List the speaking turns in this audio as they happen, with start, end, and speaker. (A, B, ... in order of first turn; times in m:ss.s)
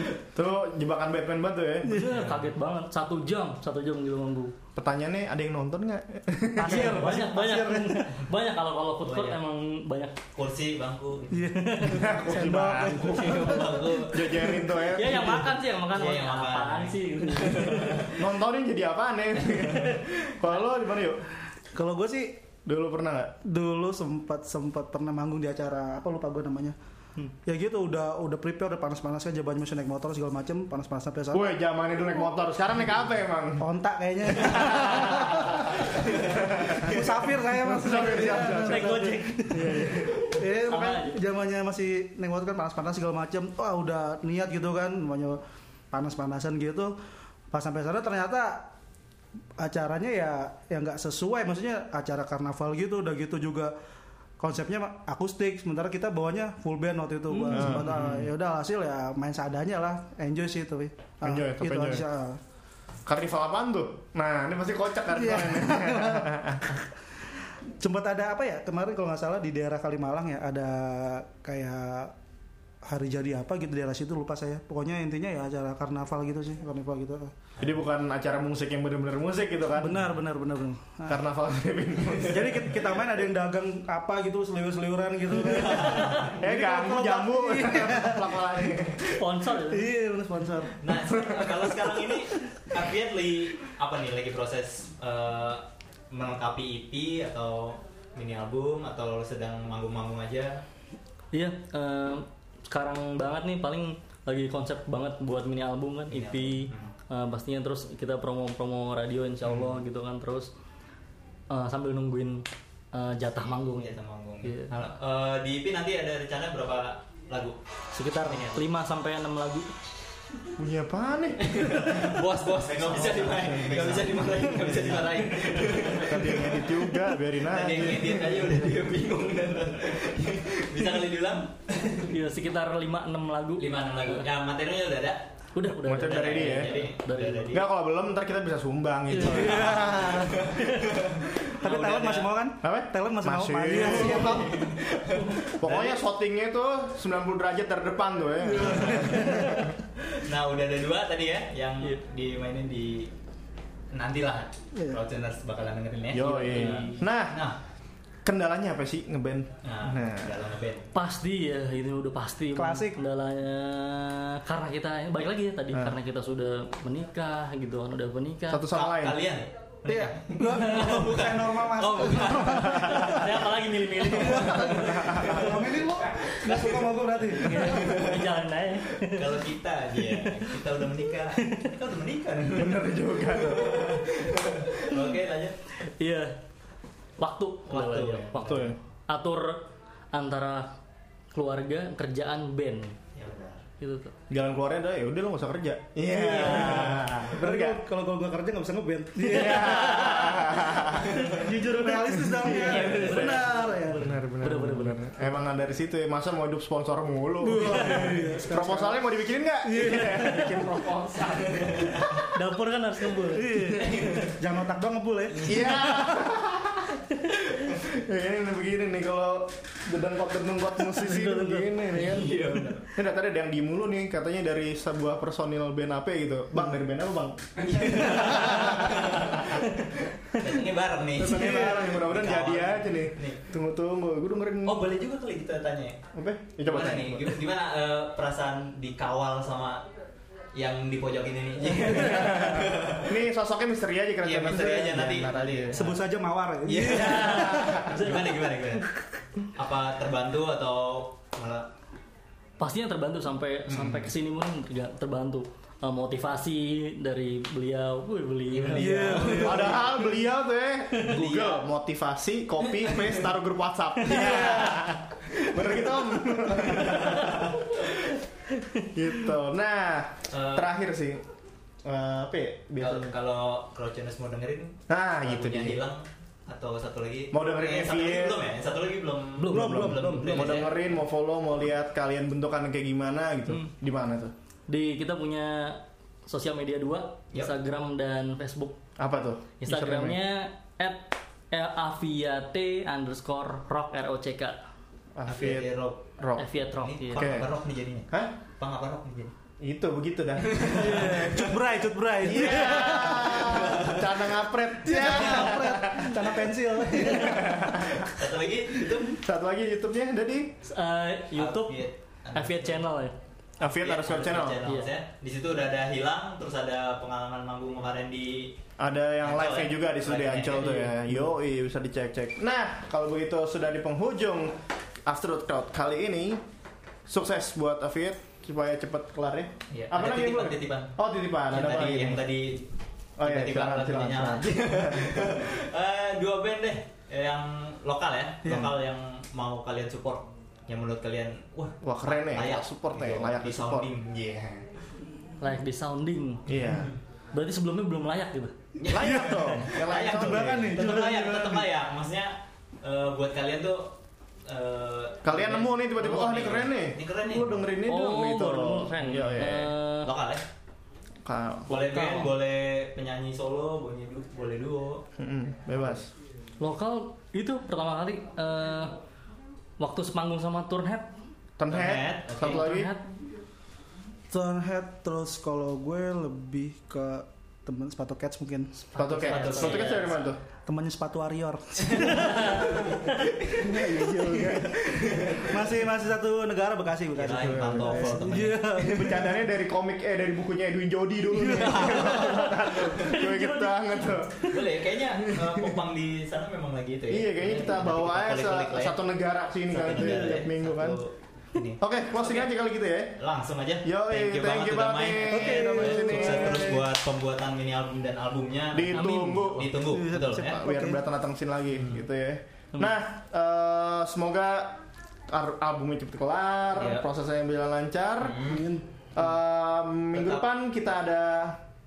0:00.3-0:02.0 A
0:01.8-0:02.2 B
0:01.9-0:04.5 C
0:04.8-0:07.1 A
0:06.6-0:08.1 B
0:06.6-0:10.2 C
0:09.0-0:09.4 D
0:10.4-0:11.5 D
0:11.3-0:14.0 B
0:11.4-0:12.1 C
0:11.8-0:15.6 A
0:13.0-0:14.6 D
0:14.9-0:18.1 C
0:15.9-0:18.1 D
0:18.0-0:21.2 A
0:21.7-0:22.4 B
0:22.6-0:23.4 A
0:23.4-0:26.8 B
0:27.4-0:31.6 B
0:31.3-0:33.7 A
0:33.6-0:45.4 B
0:34.3-0:40.2 A
0:38.3-0:40.0 C
0:40.6-0:41.2 C
0:45.9-0:47.0 B
0:47.5-0:48.7 B
0:49.6-0:53.7 B
0:54.4-1:02.4 B
0:57.3-0:57.8 C
0:57.5-0:58.3 A
1:01.2-1:02.0 A
1:03.1-1:06.8 A
1:05.1-1:06.8 B
1:07.8-1:12.1 B
1:12.8-1:17.3 B
1:17.6-1:17.8 D
1:17.6-1:20.1 A
1:19.8-1:21.2 B
1:21.1-1:23.0 A
1:22.3-1:29.0 B
1:25.4-1:26.3 D
1:26.3-1:29.2 A
1:29.2-1:29.9 C
1:29.6-1:32.2 B
1:30.8-1:40.6 D
1:41.3-1:50.5 C
1:46.1-1:46.9 D
1:51.5-1:54.7 C
1:53.8-1:57.6 D
1:57.9-1:59.7 C
1:58.2-1:58.6 D
2:00.6-2:02.2 A
2:01.4-2:06.7 D
2:03.0-2:08.6 A
2:07.4-2:12.1 D
2:12.0-2:14.2 C
2:13.6-2:15.3 D
2:15.6-2:17.6 C
2:15.8-2:16.9 A
2:16.0-2:17.6 D
2:17.5-2:20.2 A
2:19.1-2:21.0 C
2:19.2-2:22.3 D
2:19.2-2:20.5 B
2:21.6-2:24.6 B
2:22.6-2:24.6 A
2:23.7-2:26.0 D
2:25.5-2:29.7 A
2:28.5-2:33.1 D
2:28.6-2:29.3 B
2:28.8-2:29.7 C
2:33.9-2:37.6 D
2:34.8-2:35.0 B
2:36.1-2:37.4 A
2:36.2-2:37.0 C
2:38.2-2:40.4 A
2:39.6-2:40.9 D
2:40.9-2:48.7 C
2:42.5-2:43.0 B
2:48.5-2:49.2 A
2:48.7-2:53.0 D
2:49.9-2:53.2 B
2:52.3-2:55.0 C
2:52.7-2:53.1 A
2:54.0-2:57.8 B
2:54.6-2:55.6 A
2:56.4-2:57.0 D
2:57.4-2:59.4 C
2:57.7-2:58.1 D
2:59.1-3:05.6 D
3:00.0-3:00.4 C
3:01.4-3:01.7 C
3:02.6-3:04.6 A
3:06.0-3:06.3 C
3:07.2-3:10.7 C
3:07.7-3:08.7 D
3:08.4-3:08.8 A
3:11.3-3:13.0 C
3:13.2-3:13.6 D
3:13.8-3:14.1 C
3:14.3-3:17.8 A
3:16.1-3:24.2 B
3:19.2-3:21.4 A
3:22.0-3:23.4 A
3:22.4-3:25.2 C
3:24.0-3:32.3 A
3:27.4-3:29.0 B
3:29.6-3:30.7 B
3:30.1-3:30.4 C
3:31.5-3:32.1 D
3:32.3-3:34.2 C
3:33.2-3:35.8 B
3:33.8-3:34.3 D
3:35.3-3:35.9 D
3:35.4-3:49.6 A
3:40.9-3:42.1 C
3:41.9-3:43.0 D
3:47.6-3:53.5 D
3:51.2-3:55.0 A
3:51.2-3:51.6 B
3:54.6-3:56.0 D
3:56.1-3:57.4 A
3:56.7-3:59.8 D
4:00.5-4:03.2 D
4:01.9-4:05.8 A
4:04.2-4:06.0 D
4:05.7-4:07.8 B
4:06.6-4:08.9 D
4:06.9-4:08.5 C
4:09.4-4:11.7 D
4:12.6-4:19.4 C
4:13.7-4:14.1 D
4:18.5-4:20.0 D
4:18.7-4:19.9 B
4:19.4-4:27.7 A
4:21.0-4:21.7 D
4:22.6-4:23.3 D
4:24.1-4:24.5 C
4:24.2-4:24.7 D
4:26.6-4:27.8 D
4:28.5-4:28.9 C
4:28.9-4:31.2 A
4:30.3-4:30.7 D
4:31.8-4:33.1 A
4:32.8-4:40.8 D
4:34.9-4:35.8 A
4:37.3-4:38.4 A
4:39.4-4:40.6 B
4:39.5-4:44.3 A
4:44.7-4:48.8 C
4:49.0-4:50.2 A
4:49.6-4:54.6 C
4:55.2-4:56.5 A
4:55.2-4:56.1 D
4:56.4-4:57.3 C
4:56.8-4:59.3 D
4:57.2-4:57.5 A
4:59.6-5:01.3 A
5:00.5-5:01.5 D
5:00.7-5:03.7 B
5:02.2-5:08.1 A
5:02.3-5:04.1 D
5:04.8-5:07.8 B
5:08.0-5:09.2 D
5:09.1-5:10.5 A
5:10.6-5:13.1 C
5:11.4-5:12.8 D
5:13.6-5:14.6 A
5:13.7-5:18.6 D
5:14.6-5:14.9 C
5:18.8-5:26.4 A
5:19.2-5:20.9 D
5:20.6-5:21.2 C
5:27.1-5:32.3 A
5:29.7-5:31.0 D
5:31.5-5:44.7 D
5:33.2-5:35.4 A
5:38.4-5:38.7 B
5:41.8-5:43.9 A
5:45.4-5:46.5 C
5:46.5-5:46.9 A
5:46.6-5:47.0 D
5:47.3-5:48.6 C
5:48.8-5:54.0 D
5:48.8-5:50.9 A
5:48.9-5:51.7 B
5:54.5-5:57.7 D
5:55.2-5:59.7 A
5:57.9-6:00.1 C
6:00.0-6:00.4 D
6:01.2-6:01.8 A
6:01.7-6:05.1 D
6:01.8-6:02.3 C
6:05.2-6:06.1 A
6:06.6-6:08.9 C
6:09.8-6:11.1 C
6:11.6-6:12.9 A
6:11.7-6:12.7 D
6:12.4-6:13.1 C
6:14.3-6:18.7 B
6:18.7-6:20.2 C
6:19.0-6:20.4 A
6:19.2-6:20.2 D
6:20.6-6:24.7 B
6:22.0-6:23.3 C
6:22.0-6:22.9 D
6:23.6-6:25.4 A
6:24.5-6:25.8 D
6:25.4-6:29.4 B
6:27.1-6:28.9 D
6:27.3-6:34.5 A
6:31.4-6:32.5 D
6:31.5-6:32.2 B
6:32.3-6:34.7 C
6:34.4-6:39.0 D
6:35.2-6:35.8 A
6:37.1-6:41.0 A
6:39.7-6:42.5 D
6:41.8-6:43.2 A
6:43.2-6:50.6 D
6:43.8-6:46.8 A
6:45.3-6:46.9 B
6:48.7-6:58.4 A
6:48.9-6:49.6 C
6:49.8-6:51.0 B
6:51.7-6:52.0 D
6:56.8-6:57.0 D
6:58.2-6:58.7 D
6:58.4-6:58.8 B
6:59.1-7:01.6 A
7:00.1-7:00.4 D